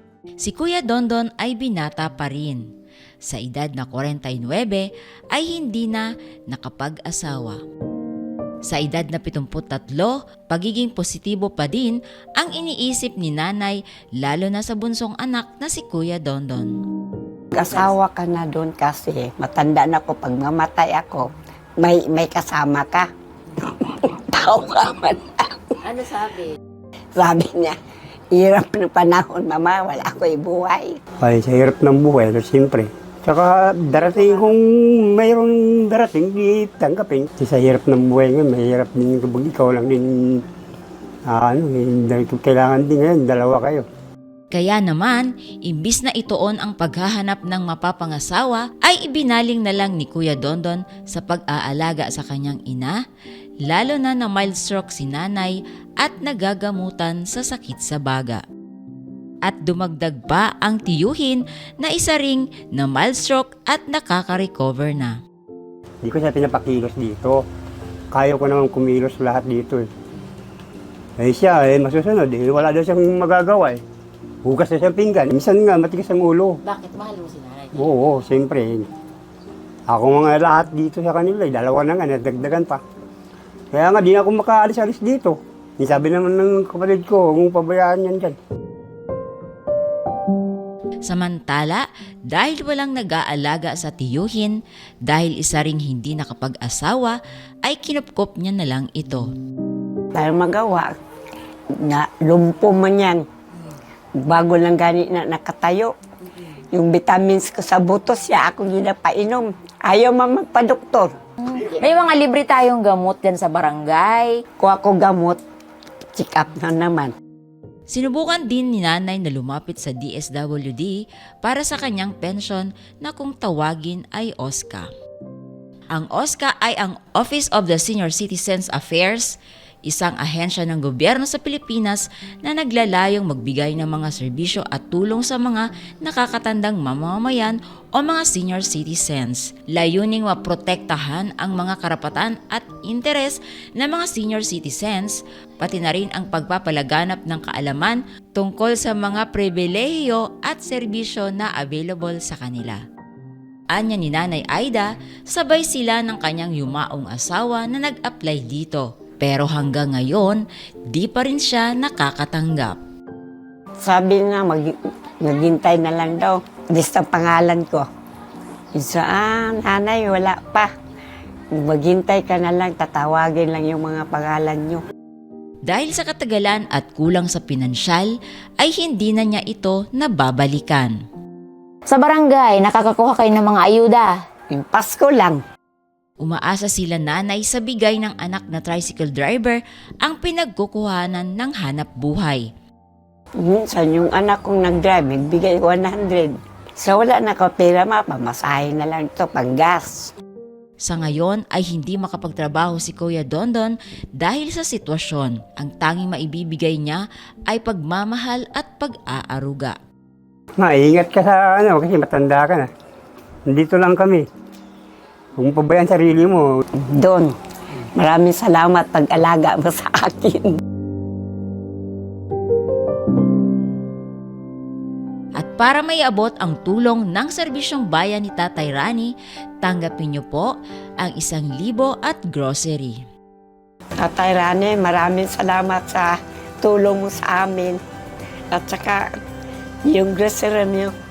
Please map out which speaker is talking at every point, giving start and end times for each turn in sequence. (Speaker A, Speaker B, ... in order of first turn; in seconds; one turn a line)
Speaker A: 0.4-2.6
Speaker A: 3.2-7.6
Speaker A: 8.7-16.8
Speaker B: 17.5-26.1
Speaker B: 27.2-27.8
Speaker B: 28.3-31.0
Speaker C: 31.2-40.4
Speaker C: 41.3-43.9
Speaker A: 44.5-53.0
Speaker A: 53.7-58.4
Speaker A: 59.4-65.2
Speaker C: 66.0-67.4
Speaker C: 68.1-69.9
Speaker C: 71.2-73.8
Speaker C: 74.4-76.6
Speaker A: 76.7-77.7
Speaker C: 77.7-78.9
Speaker C: 79.9-82.8
Speaker C: 83.7-88.4
Speaker A: 91.0-99.3
Speaker B: 100.1-100.9
Speaker B: 101.8-103.2
Speaker B: 104.2-106.0
Speaker B: 106.7-111.2
Speaker D: 111.6-112.7
Speaker A: 111.6-114.4
Speaker B: 114.6-115.4
Speaker B: 116.2-117.1
Speaker A: 117.9-124.9
Speaker A: 125.9-152.8
Speaker A: 153.7-162.8
Speaker B: 163.8-167.9
Speaker B: 168.7-170.7
Speaker B: 171.6-174.8
Speaker A: 175.7-181.0
Speaker D: 181.9-184.1
Speaker A: 182.6-183.2
Speaker B: 184.5-185.4
Speaker A: 186.2-192.5
Speaker B: 193.4-200.1
Speaker A: 200.8-209.8
Speaker C: 210.6-212.7
Speaker C: 213.5-214.3
Speaker C: 215.4-216.5
Speaker B: 216.8-217.3
Speaker B: 218.0-220.6
Speaker A: 225.4-233.0
Speaker B: 234.0-237.8
Speaker B: 238.5-239.1
Speaker B: 239.9-240.9